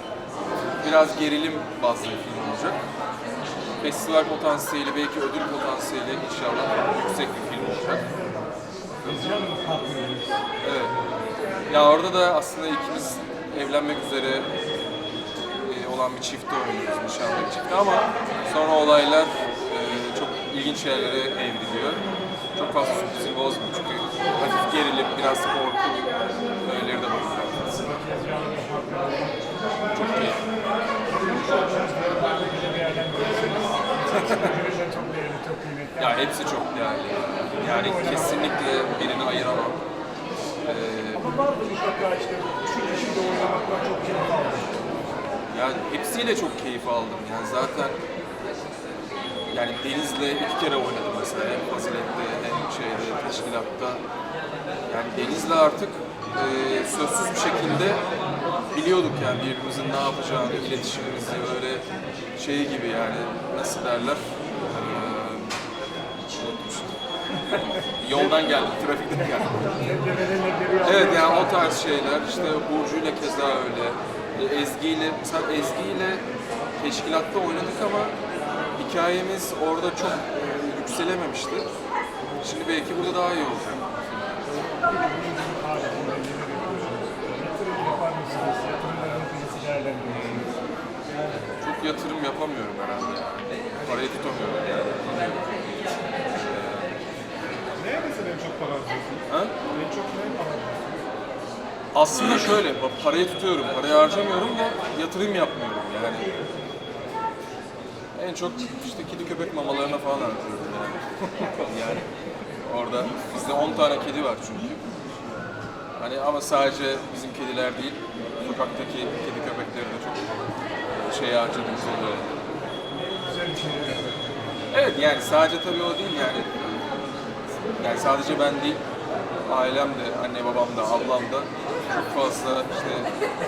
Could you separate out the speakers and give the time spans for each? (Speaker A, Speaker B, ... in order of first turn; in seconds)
Speaker A: 0.8-2.9, 3.8-8.1, 9.0-9.5, 10.6-11.0, 11.7-14.5, 15.6-27.9, 29.9-30.4, 34.2-34.5, 36.0-39.8, 40.6-41.5, 45.5-48.0, 49.5-54.0, 54.9-58.0, 58.7-61.9, 62.4-65.6, 66.3-69.7, 70.8-76.2, 76.8-78.2, 78.8-81.7, 82.4-84.5, 90.1-90.5, 91.5-96.9, 99.3-99.5, 101.9-106.3, 108.2-112.1, 112.6-114.8, 116.0-120.3, 120.9-122.4, 124.7-126.8, 127.8-128.8, 129.4-133.1
Speaker B: 7.7-8.4, 9.0-10.4, 27.7-30.0, 31.1-36.3, 37.6-39.0, 41.1-44.9, 67.4-68.5, 69.1-72.5, 84.7-90.5, 123.2-124.4
Speaker C: 97.7-101.0